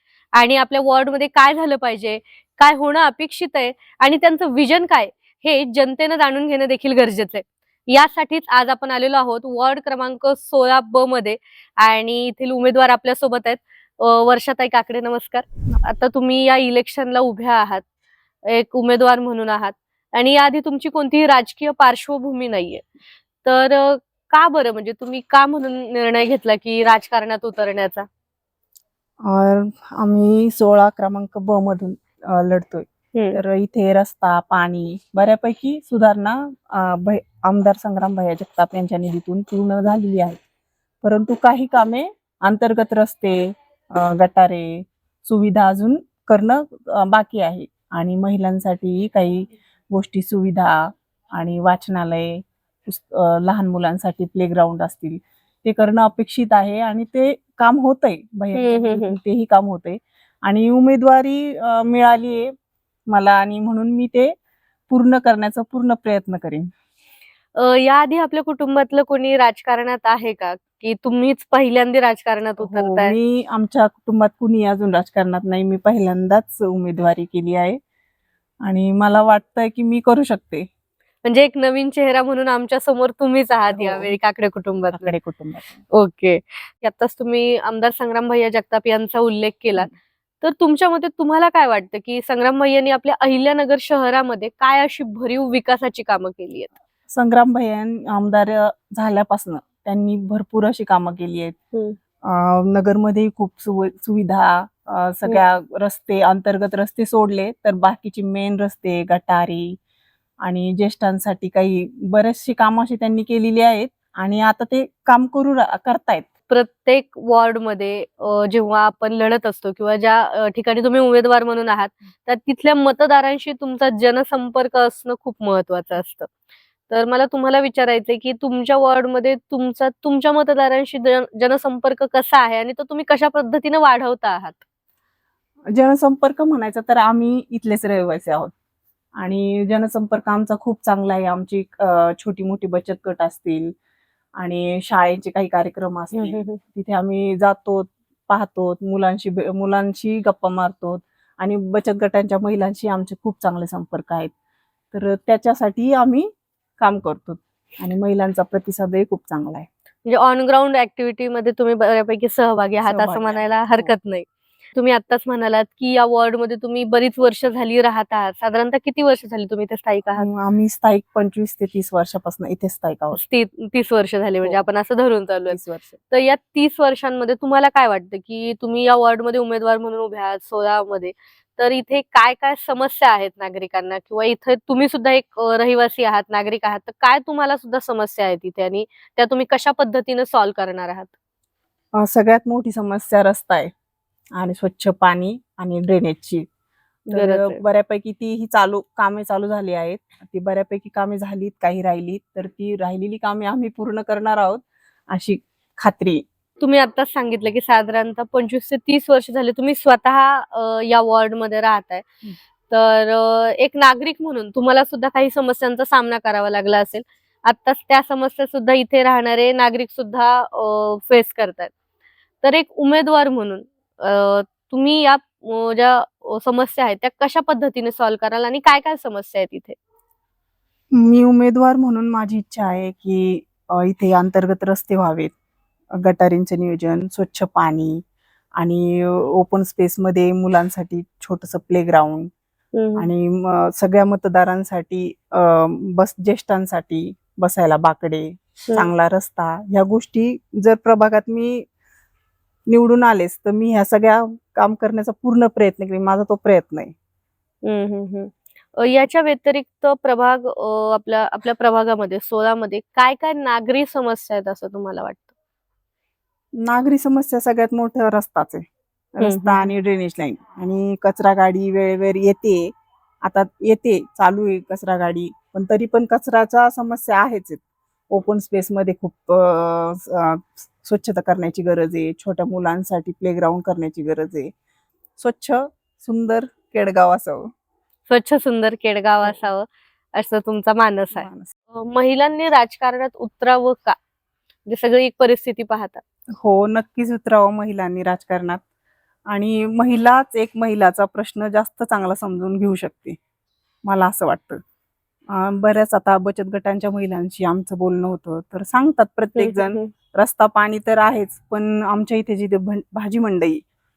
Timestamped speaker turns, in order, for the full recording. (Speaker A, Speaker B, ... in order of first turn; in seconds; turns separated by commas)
Speaker A: 0.4-17.8, Speaker A: 18.5-22.9, Speaker A: 23.4-28.1, Speaker B: 29.2-40.4, Speaker B: 41.0-62.5, Speaker A: 58.5-59.2, Speaker B: 63.1-64.3, Speaker B: 64.9-66.7, Speaker A: 67.6-73.2, Speaker B: 72.6-77.8, Speaker B: 78.7-80.7, Speaker A: 81.2-85.1, Speaker B: 83.7-84.1, Speaker B: 84.9-85.8, Speaker A: 85.9-89.9, Speaker A: 90.4-96.7, Speaker B: 97.1-101.6, Speaker B: 102.2-109.8, Speaker B: 110.4-116.3, Speaker A: 116.5-126.3, Speaker A: 126.9-134.6, Speaker B: 135.7-138.5, Speaker B: 139.2-143.7, Speaker B: 144.4-154.3, Speaker A: 146.1-146.6, Speaker B: 154.9-156.3, Speaker B: 156.8-159.7, Speaker A: 160.1-170.3, Speaker B: 162.8-163.9, Speaker B: 170.2-173.2, Speaker A: 173.2-175.6, Speaker B: 175.5-176.0, Speaker A: 176.1-191.1, Speaker B: 192.0-193.7, Speaker B: 194.4-196.4, Speaker A: 197.1-197.6, Speaker B: 197.1-206.2, Speaker A: 206.6-212.1, Speaker A: 212.7-221.7, Speaker A: 222.4-229.8, Speaker B: 230.9-235.3, Speaker B: 235.9-238.0, Speaker B: 238.6-242.3, Speaker A: 242.8-243.1, Speaker B: 243.0-251.7, Speaker B: 252.7-256.9, Speaker A: 257.6-265.3, Speaker B: 266.6-268.6, Speaker B: 269.1-284.5, Speaker A: 269.2-269.6, Speaker B: 285.2-287.5, Speaker A: 288.1-294.0, Speaker B: 291.1-291.5, Speaker A: 294.7-296.0, Speaker B: 296.4-298.6, Speaker B: 299.3-303.2, Speaker B: 303.9-304.6, Speaker B: 305.3-313.6, Speaker A: 309.4-309.9